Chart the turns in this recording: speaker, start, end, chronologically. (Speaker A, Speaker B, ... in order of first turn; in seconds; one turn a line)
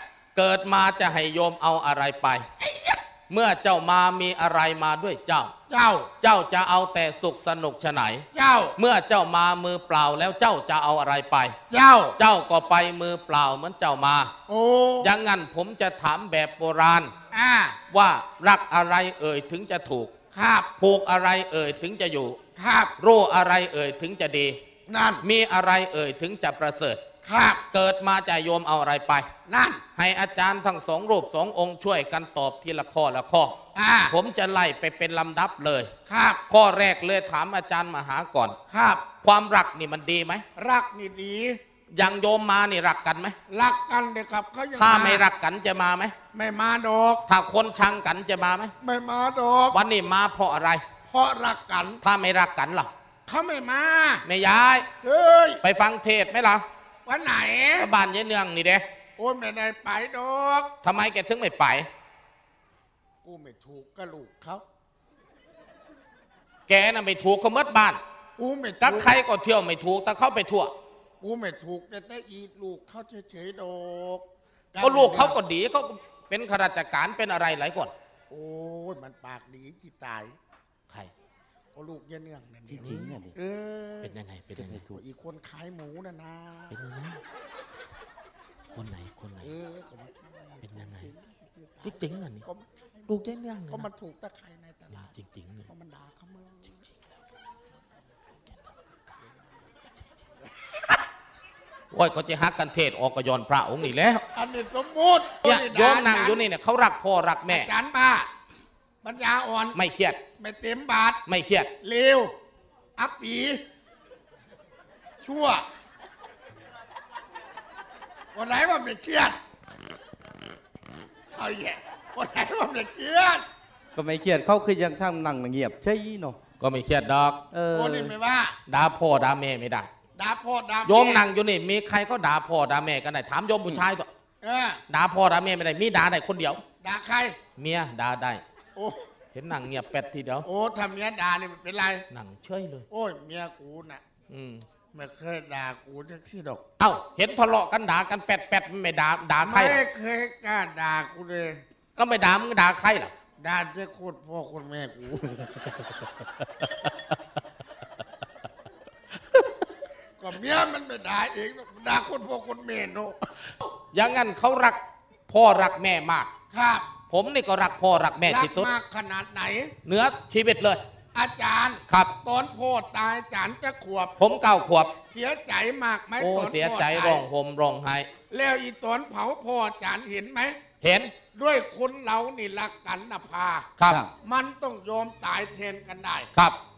Speaker A: 0.3-2.5
Speaker B: 2.6-3.0
Speaker A: 3.3-5.5
Speaker B: 5.7-6.1
Speaker A: 6.2-8.2
Speaker B: 8.3-8.8
Speaker A: 8.8-11.6
Speaker B: 11.7-12.2
Speaker A: 12.2-14.3
Speaker B: 14.5-15.1
Speaker A: 15.0-17.1
Speaker B: 17.3-17.8
Speaker A: 17.9-20.1
Speaker B: 20.3-20.7
Speaker A: 20.8-22.4
Speaker B: 22.6-22.9
Speaker A: 23.0-24.6
Speaker B: 24.9-25.2
Speaker A: 25.2-27.0
Speaker B: 27.2-27.6
Speaker A: 27.7-29.3
Speaker B: 29.4-29.8
Speaker A: 29.9-33.5
Speaker B: 33.7-34.1
Speaker A: 34.1-35.9
Speaker B: 36.1-36.4
Speaker A: 36.5-38.5
Speaker B: 38.7-39.0
Speaker A: 39.2-40.4
Speaker B: 40.5-41.6
Speaker A: 41.9-43.3
Speaker B: 43.5-45.3
Speaker A: 44.7-46.1
Speaker B: 46.3-47.2
Speaker A: 47.3-48.7
Speaker B: 48.8-49.8
Speaker A: 49.7-50.8
Speaker B: 51.1-52.0
Speaker A: 52.0-52.9
Speaker B: 53.2-54.2
Speaker A: 54.2-54.9
Speaker B: 55.0-55.6
Speaker A: 55.6-56.6
Speaker B: 57.0-57.9
Speaker A: 57.8-58.8
Speaker B: 59.2-60.7
Speaker A: 60.8-61.9
Speaker B: 63.2-64.6
Speaker A: 66.7-68.0
Speaker B: 68.4-69.1
Speaker A: 68.8-70.7
Speaker B: 71.2-75.4
Speaker A: 74.8-77.9
Speaker B: 78.3-80.3
Speaker B: 81.7-84.2
Speaker A: 82.7-83.1
Speaker C: 82.8-83.3
Speaker A: 84.0-84.8
Speaker C: 84.6-85.0
Speaker B: 84.8-86.8
Speaker A: 86.7-87.2
Speaker A: 88.7-89.5
Speaker B: 89.4-95.1
Speaker A: 90.6-91.1
Speaker A: 91.8-92.4
Speaker A: 93.1-93.9
Speaker A: 94.9-95.7
Speaker B: 95.7-96.8
Speaker A: 101.9-104.2
Speaker B: 104.3-106.4
Speaker A: 105.4-107.7
Speaker B: 107.5-108.3
Speaker B: 109.0-109.8
Speaker A: 109.7-110.2
Speaker B: 110.4-111.2
Speaker A: 111.2-111.7
Speaker B: 111.8-112.3
Speaker B: 113.0-113.6
Speaker B: 115.2-115.6
Speaker B: 118.3-119.4
Speaker B: 121.3-123.4
Speaker C: 123.9-126.4
Speaker A: 126.6-127.4
Speaker C: 127.5-128.1
Speaker B: 127.7-128.6
Speaker A: 128.7-129.9
Speaker B: 130.2-131.2
Speaker A: 130.8-134.1
Speaker B: 134.4-134.8
Speaker A: 134.9-136.6
Speaker B: 136.8-137.4
Speaker A: 137.6-138.4
Speaker B: 138.8-139.0
Speaker A: 139.3-140.5
Speaker B: 140.4-142.0
Speaker A: 142.1-142.9
Speaker B: 142.9-144.0
Speaker A: 144.3-144.6
Speaker B: 144.9-146.6
Speaker A: 146.8-149.8
Speaker B: 149.4-151.6
Speaker A: 151.9-153.1
Speaker B: 153.4-155.4
Speaker B: 160.2-163.2
Speaker A: 163.9-166.3
Speaker B: 166.5-166.9
Speaker A: 167.1-168.7
Speaker B: 168.2-169.7
Speaker A: 169.8-170.8
Speaker B: 171.1-174.1
Speaker A: 171.9-172.1
Speaker A: 174.2-174.9
Speaker B: 175.1-177.3
Speaker A: 176.2-178.1
Speaker B: 178.3-180.6
Speaker A: 180.8-181.1
Speaker B: 181.3-186.3
Speaker A: 183.8-184.0